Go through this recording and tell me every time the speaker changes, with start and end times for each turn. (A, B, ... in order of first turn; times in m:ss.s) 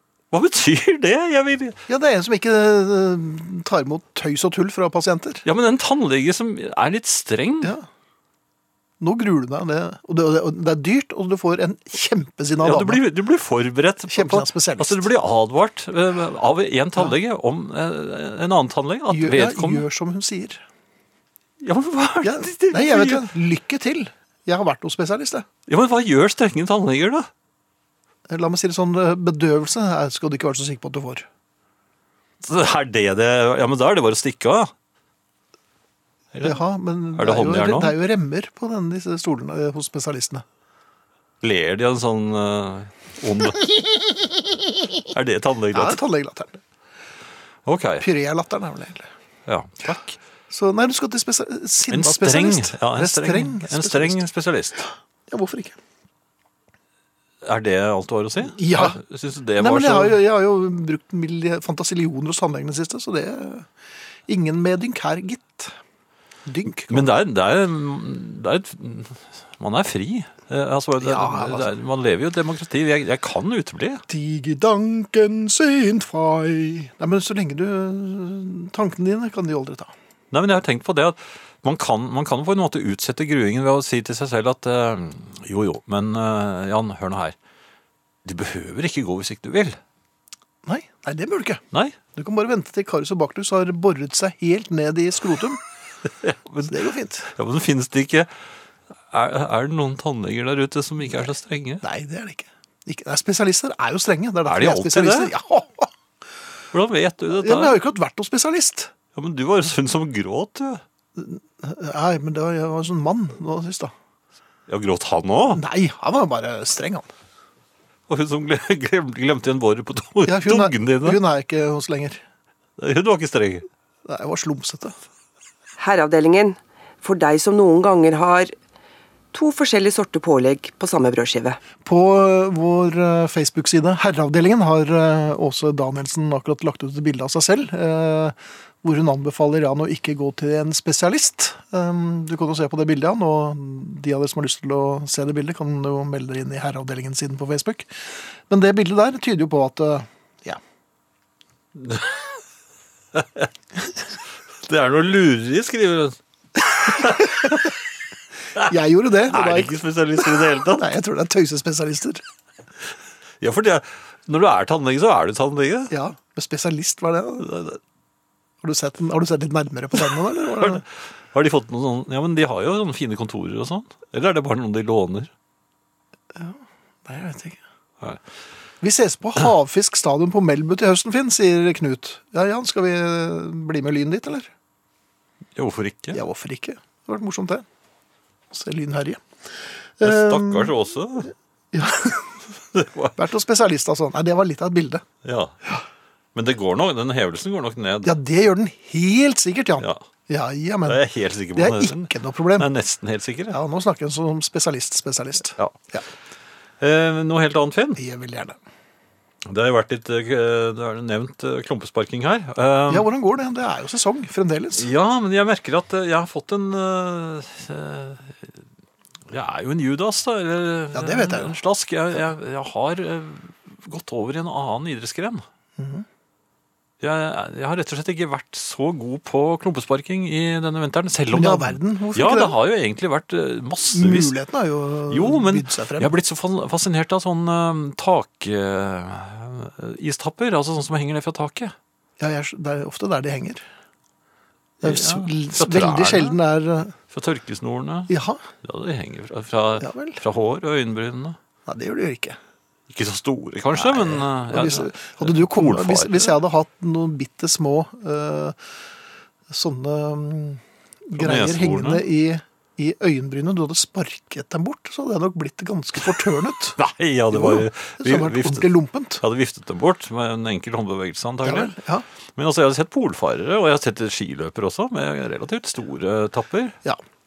0:00.3-0:01.8 A
0:01.9-0:05.4 B
0:05.4-0:07.8 A
0:09.0-0:13.0 B
0:12.6-0:19.8 A
0:14.1-0:15.1 B
0:19.1-0:20.6 B
0:21.6-0:23.3 A
0:22.2-0:25.5 B
0:25.7-0:27.3 A
0:28.3-0:31.3 B
0:32.4-0:34.7 A
0:36.4-0:40.4 B
0:37.2-0:38.0 A
0:41.4-0:43.8 A
0:45.0-0:46.0 A
0:45.7-0:46.6 B
0:47.7-0:48.1 A
0:48.0-0:49.1 B
0:49.5-0:50.2 A
0:50.5-0:54.2 B
0:51.9-0:54.9 A
0:55.3-0:55.8 B
0:57.4-1:00.2 A
0:58.4-0:59.0 B
0:59.6-1:03.7 B
1:04.3-1:05.8 B
1:06.5-1:07.1 B
1:06.9-1:14.0 A
1:11.0-1:11.7 B
1:14.1-1:19.9 B
1:20.3-1:27.4 A
1:28.2-1:29.8 A
1:30.6-1:31.6 B
1:32.2-1:35.6 B
1:36.2-1:38.3 A
1:36.7-1:37.3 B
1:39.1-1:41.8 A
1:41.0-1:41.3 B
1:41.8-1:45.9 B
1:44.5-1:45.3 A
1:46.7-1:47.8 A
1:47.3-1:48.9 B
1:49.2-1:50.8 A
1:51.2-1:53.9 B
1:54.7-1:55.6 A
1:55.5-1:57.1 B
1:58.1-2:01.2 A
2:00.3-2:02.2 B
2:02.8-2:03.7 A
2:04.1-2:05.0 B
2:05.8-2:08.5 C
2:09.3-2:11.6 C
2:11.8-2:30.6 B
2:31.8-2:32.4 A
2:33.1-2:33.5 A
2:34.6-2:36.2 A
2:36.8-2:37.7 A
2:37.0-2:37.5 B
2:38.6-2:42.2 B
2:39.3-2:40.9 A
2:43.4-2:45.9 A
2:45.9-2:47.5 B
2:47.4-2:47.8 A
2:48.6-2:50.8 B
2:50.6-2:55.3 A
2:56.3-2:57.6 B
2:58.8-3:04.5 B
3:05.6-3:06.2 A
3:06.1-3:07.6 B
3:08.5-3:09.2 B
3:10.0-3:10.7 B
3:10.0-3:11.3 A
3:11.7-3:12.4 B
3:12.7-3:13.2 A
3:13.2-3:15.0 B
3:15.2-3:15.6 A
3:16.4-3:18.2 A
3:18.0-3:21.0 B
3:20.9-3:23.6 A
3:21.6-3:22.7 B
3:23.5-3:26.0 B
3:26.8-3:28.0 A
3:28.0-3:28.6 B
3:29.5-3:33.1 A
3:32.9-3:34.9 B
3:34.8-3:38.5 A
3:39.3-3:45.4 A
3:40.9-3:41.6 B
3:45.8-3:46.1 B
3:47.0-3:54.4 A
3:51.3-3:52.6 B
3:53.9-3:56.1 B
3:55.1-4:01.7 A
4:02.2-4:03.6 B
4:04.8-4:06.9 B
4:04.8-4:06.4 A
4:07.1-4:08.1 A
4:08.1-4:08.4 B
4:08.6-4:11.4 A
4:09.8-4:10.2 B
4:11.7-4:12.4 B
4:12.9-4:16.3 A
4:13.8-4:18.6 B
4:19.5-4:26.8 B
4:21.2-4:22.0 A
4:26.8-4:31.7 A
4:27.3-4:29.2 B
4:31.4-4:32.0 B
4:32.4-4:36.8 A